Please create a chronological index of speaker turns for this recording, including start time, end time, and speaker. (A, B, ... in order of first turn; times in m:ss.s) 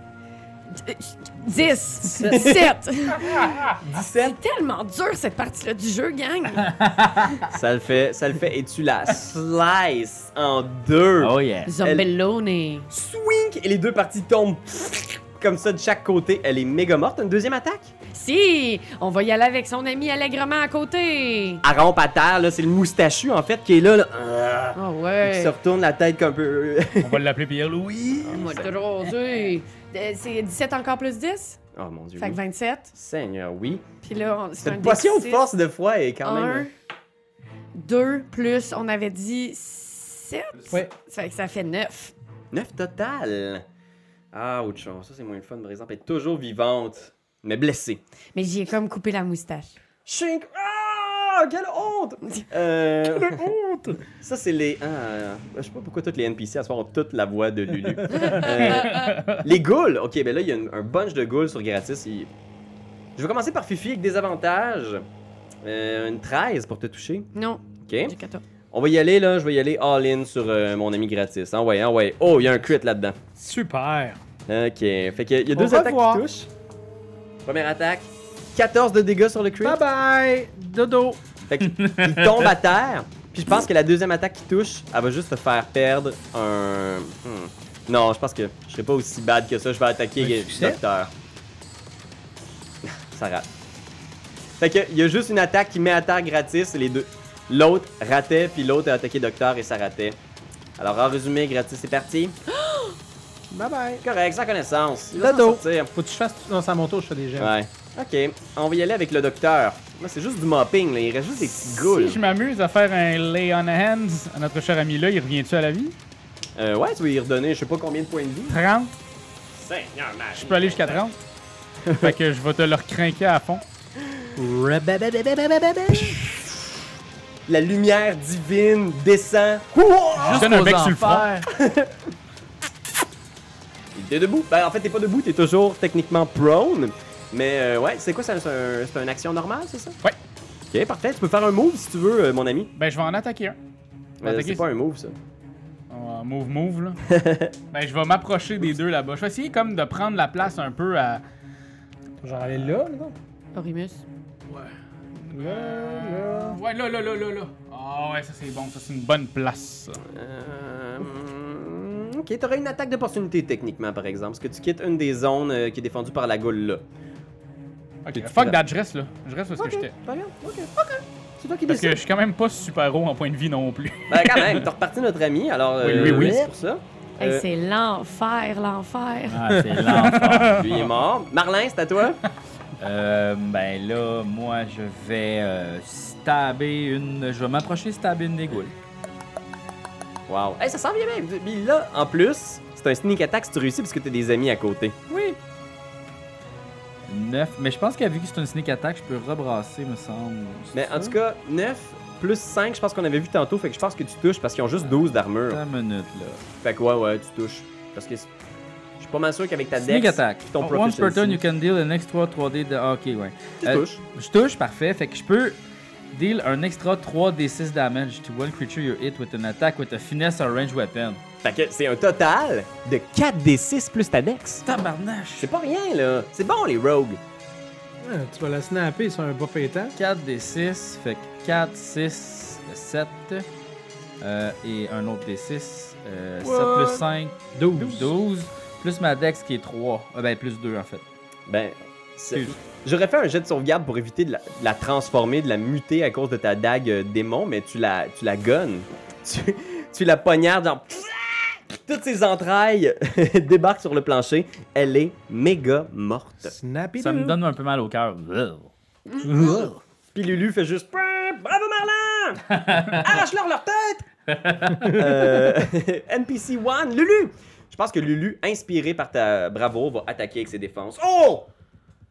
0:00.7-0:06.7 A
0:02.1-0:02.7 B
0:03.3-0:04.4 B
0:06.6-0:07.4 C
0:07.5-0:12.1 B
0:11.2-0:11.7 C
0:11.6-0:12.9 A
0:12.9-0:17.9 B
0:18.1-0:21.6 A
0:21.6-0:27.2 B
0:24.7-0:25.5 A
0:27.0-0:28.4 D
0:28.2-0:28.7 B
0:28.3-0:31.6 A
0:31.7-0:32.4 B
0:32.2-0:32.9 A
0:32.9-0:33.8 B
0:34.0-0:35.5 A
0:34.6-0:36.7 B
0:36.2-0:36.7 A
0:37.7-0:42.1 A
0:42.5-0:43.6 B
0:44.3-0:48.0 B
0:48.3-0:49.8 A
0:50.0-0:53.4 B
0:53.0-0:54.0 E
0:54.1-1:02.3 B
0:58.1-0:59.2 A
0:58.5-0:59.4 D
1:03.2-1:05.0 B
1:05.6-1:07.3 B
1:07.3-1:08.4 A
1:07.8-1:08.1 B
1:08.7-1:13.2 B
1:13.4-1:14.2 E
1:14.5-1:16.5 B
1:15.5-1:16.2 E
1:17.4-1:19.8 B
1:19.6-1:21.2 E
1:21.5-1:31.1 B
1:21.6-1:22.5 C
1:30.2-1:30.8 E
1:32.8-1:33.5 B
1:34.6-1:40.2 B
1:40.8-1:42.3 B
1:42.6-1:42.9 A
1:43.5-1:44.0 E
1:44.0-1:45.9 B
1:45.1-1:47.5 E
1:47.4-1:52.2 B
1:51.8-1:55.9 D
1:56.6-1:58.6 B
1:58.5-1:58.9 D
1:59.5-2:01.0 B
2:00.3-2:01.2 D
2:01.8-2:02.2 B
2:02.0-2:03.6 D
2:04.4-2:05.1 E
2:05.8-2:06.1 B
2:07.5-2:10.5 B
2:10.2-2:11.5 C
2:10.3-2:11.4 D
2:11.5-2:11.9 B
2:13.9-2:20.0 B
2:20.7-2:22.7 B
2:22.7-2:23.6 D
2:24.2-2:24.7 D
2:24.2-2:25.2 B
2:25.9-2:27.0 D
2:27.1-2:27.5 B
2:27.7-2:31.2 D
2:32.2-2:33.1 E
2:33.5-2:34.0 A
2:35.2-2:40.0 D
2:35.3-2:36.6 E
2:40.0-2:46.8 B
2:48.0-2:49.9 D
2:48.2-2:48.6 B
2:49.6-2:52.0 B
2:51.7-2:54.7 D
2:54.1-2:57.4 B
2:55.8-2:56.4 D
2:56.0-2:56.5 E
2:57.2-2:59.4 A
2:59.3-3:00.7 C
3:00.0-3:00.9 D
3:00.5-3:02.2 B
3:02.8-3:08.7 C
3:10.3-3:15.1 B
3:17.1-3:21.2 C
3:20.7-3:25.6 B
3:25.5-3:26.4 C
3:26.6-3:28.3 B
3:29.0-3:31.4 B
3:29.7-3:35.6 C
3:33.6-3:34.0 B
3:36.1-3:41.2 C
3:41.4-3:44.6 B
3:44.6-3:45.5 C
3:45.4-3:47.2 B
3:48.0-3:49.9 E
3:50.0-3:53.5 C
3:54.2-4:01.0 C
3:56.4-3:58.1 E
4:01.5-4:16.5 B
4:16.4-4:17.4 E
4:17.0-4:18.7 C
4:19.3-4:24.1 B
4:22.5-4:23.2 C
4:24.3-4:25.1 C
4:24.9-4:31.5 B